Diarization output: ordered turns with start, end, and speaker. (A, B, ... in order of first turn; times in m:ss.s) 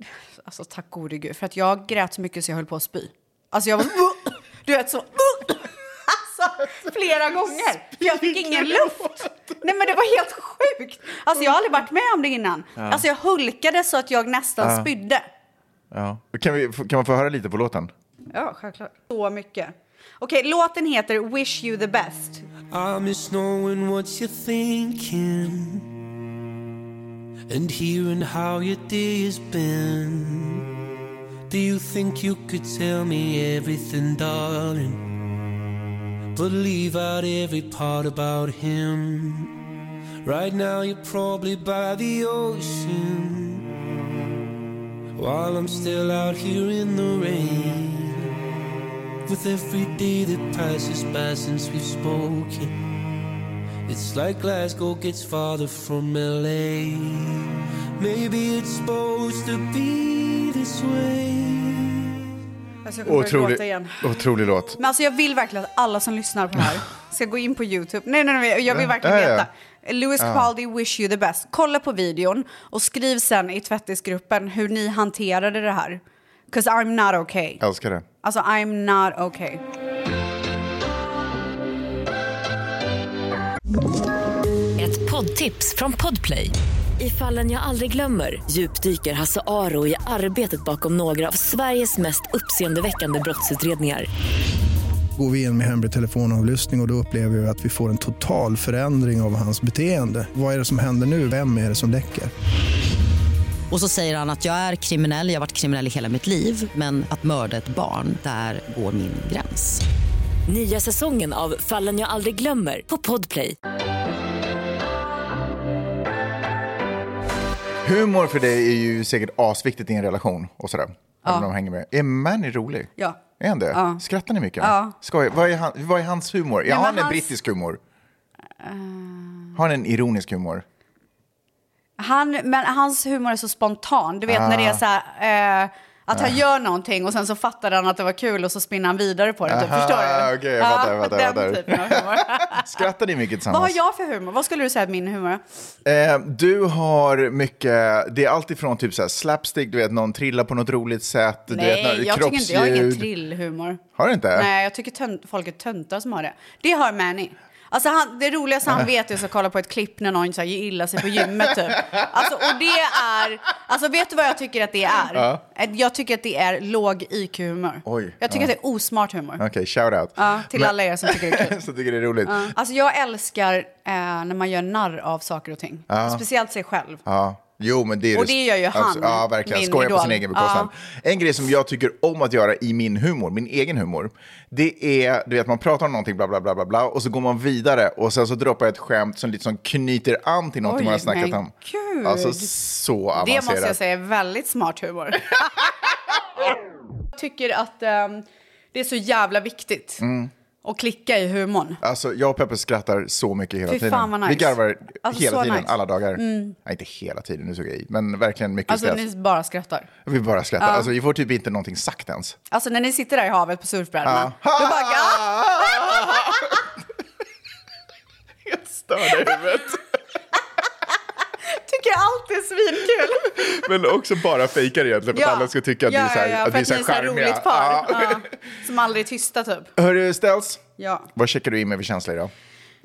0:00.4-0:15.2 A
0:08.0-0:09.1 B
0:12.8-0:13.0 B
0:14.6-0:14.9 B
0:15.9-0:17.9 B
0:18.3-0:22.4 A
0:22.7-0:25.9 C
0:27.5-0:30.6 C
0:31.5-0:35.0 C
0:36.3-0:39.5 C
0:40.2-0:43.6 C
0:45.2-0:48.3 C
0:49.2-0:52.7 C
0:53.9-1:02.2 C
1:02.8-1:04.0 A
1:03.0-1:04.8 B
1:04.8-1:17.6 A
1:08.7-1:09.5 B
1:10.2-1:10.5 B
1:17.6-1:18.0 B
1:18.2-1:19.6 A
1:24.8-1:34.1 D
1:35.2-1:42.3 E
1:43.7-1:49.8 F
1:50.5-1:53.6 D
1:57.8-2:07.8 B
2:03.7-2:04.0 A
2:04.6-2:05.0 A
2:06.6-2:07.3 A
2:08.6-2:09.6 A
2:09.5-2:10.6 B
2:12.0-2:22.8 A
2:14.3-2:14.8 B
2:19.4-2:23.8 B
2:23.5-2:25.4 A
2:25.8-2:33.1 B
2:31.5-2:33.8 A
2:34.0-2:34.5 B
2:34.3-2:49.4 A
2:45.1-2:45.4 B
2:47.8-2:48.5 B
2:49.4-2:52.5 B
2:50.2-2:51.6 A
2:52.2-2:57.0 A
2:55.9-2:56.2 B
2:57.0-3:13.8 B
2:58.1-3:00.7 A
3:10.6-3:12.5 A
3:13.2-3:15.6 A
3:17.1-3:20.0 A
3:20.0-3:20.3 B
3:20.6-3:21.8 A
3:21.8-3:29.0 B
3:23.7-3:26.6 A
3:28.7-3:29.9 A
3:30.0-3:32.4 B
3:30.6-3:30.9 A
3:32.5-3:36.5 A
3:34.0-3:36.7 B
3:38.4-3:39.8 B
3:41.4-3:43.5 A
3:43.2-3:48.3 B
3:45.1-3:49.7 A
3:49.8-3:50.6 B
3:50.8-3:51.1 A
3:51.1-3:52.3 B